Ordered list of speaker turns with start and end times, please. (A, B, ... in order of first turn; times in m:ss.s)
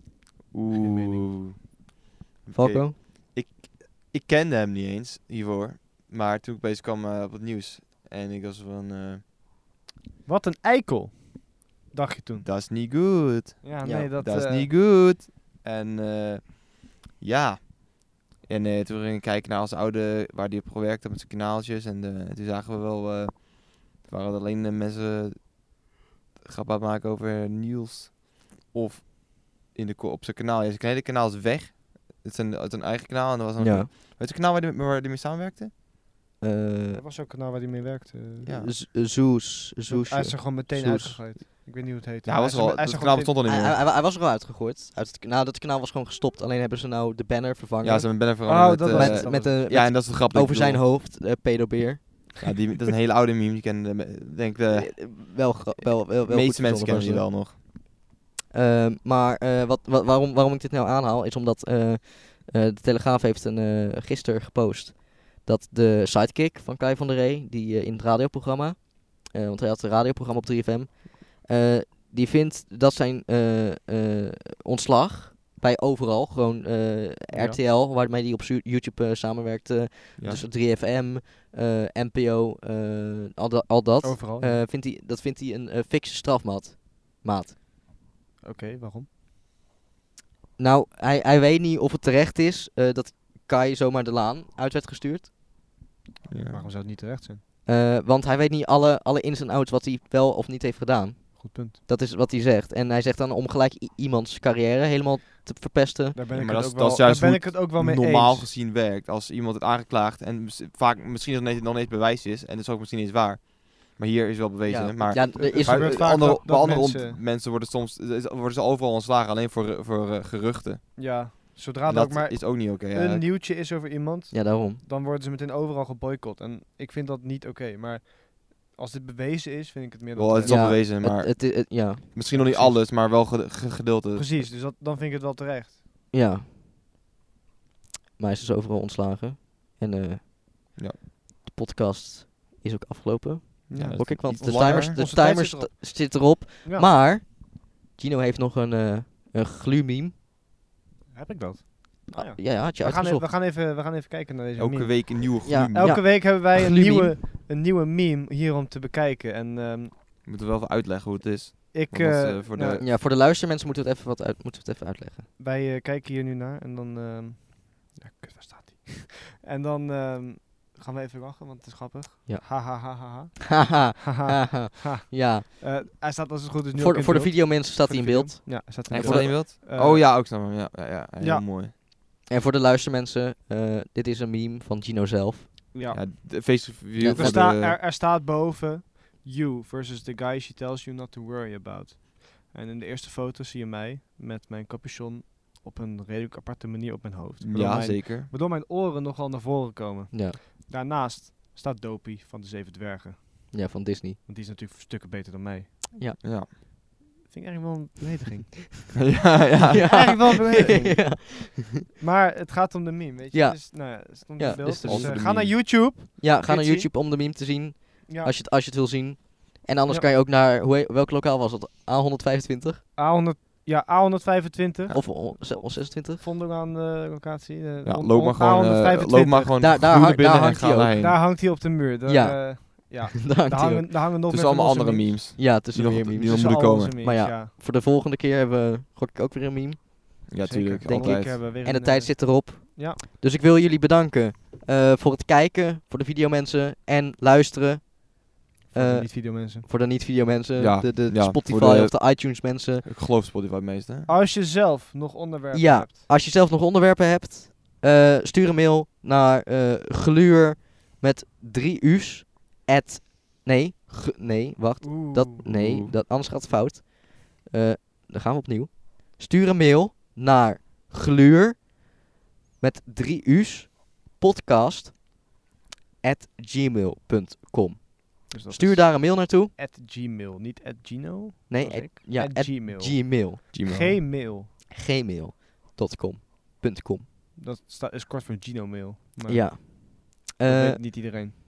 0:00.5-0:01.7 A
0:00.7-0:01.4 B
0:02.4-0:09.2 A
0:02.5-0:03.0 C
0:10.2-0:12.5 B
0:12.4-0:25.8 A
0:13.6-0:14.7 B
0:13.8-0:14.1 C
0:26.4-0:35.7 A
0:33.6-0:33.9 C
0:36.4-0:37.0 C
0:37.0-0:38.5 B
0:38.4-0:38.7 A
0:38.4-0:41.2 C
0:39.9-0:43.3 B
0:42.2-0:43.8 A
0:43.4-0:52.4 C
0:47.8-0:50.8 A
0:48.4-0:49.6 B
0:52.4-0:57.6 A
0:54.7-0:57.3 C
0:58.5-1:27.6 C
1:17.3-1:17.6 B
1:20.2-1:20.4 A
1:24.0-1:24.6 B
1:28.4-1:29.1 B
1:30.6-1:35.3 C
1:36.3-1:36.7 A
1:36.5-1:37.4 B
1:37.6-1:46.2 C
1:41.4-1:41.8 B
1:46.1-1:48.5 B
1:46.3-2:01.3 A
1:54.6-1:56.8 C
1:55.3-1:57.2 B
2:01.0-2:10.7 B
2:01.8-2:03.2 A
2:04.3-2:04.8 C
2:10.2-2:14.5 A
2:10.4-2:12.1 C
2:12.3-2:12.8 B
2:14.1-2:15.8 B
2:16.1-2:16.5 C
2:18.2-2:20.3 C
2:21.4-2:30.1 C
2:23.7-2:26.9 B
2:23.7-2:25.0 A
2:31.1-2:39.9 B
2:32.1-2:33.3 C
2:34.6-2:36.0 A
2:35.4-2:37.2 C
2:40.2-2:42.8 A
2:41.7-2:42.8 B
2:42.8-2:45.3 C
2:45.4-3:00.1 B
2:52.3-2:55.5 C
2:56.7-2:59.4 C
2:58.9-3:01.7 A
3:01.2-3:01.4 B
3:02.3-3:05.6 C
3:05.7-3:06.1 B
3:05.9-3:07.8 A
3:07.0-3:07.4 C
3:07.2-3:23.5 B
3:17.4-3:18.3 A
3:20.1-3:20.4 C
3:23.5-3:24.2 C
3:24.2-3:25.8 B
3:26.2-3:26.5 A
3:27.2-3:28.8 B
3:28.9-3:30.3 A
3:29.6-3:36.9 B
3:29.7-3:31.8 C
3:33.3-3:35.5 C
3:34.8-3:35.5 A
3:36.2-3:42.8 C
3:38.1-3:38.3 B
3:42.9-3:49.7 B
3:44.9-3:46.2 C
3:47.8-3:51.2 A
3:49.6-3:51.2 C
3:51.0-3:55.3 B
3:52.0-3:53.9 C
3:54.3-3:57.0 A
3:55.4-4:12.8 C
3:56.2-3:57.5 B
4:00.3-4:01.4 A
4:00.4-4:03.0 B
4:08.7-4:09.7 B
4:10.6-4:14.1 A
4:14.0-4:15.9 B
4:15.5-4:31.9 C
4:24.8-4:25.4 B
4:25.4-4:25.9 A
4:32.6-4:35.0 C
4:36.0-4:39.5 C
4:38.3-4:44.5 B
4:41.5-4:43.4 C
4:43.5-4:44.0 A
4:44.7-4:47.1 C
4:47.4-4:51.3 B
4:49.3-4:51.1 C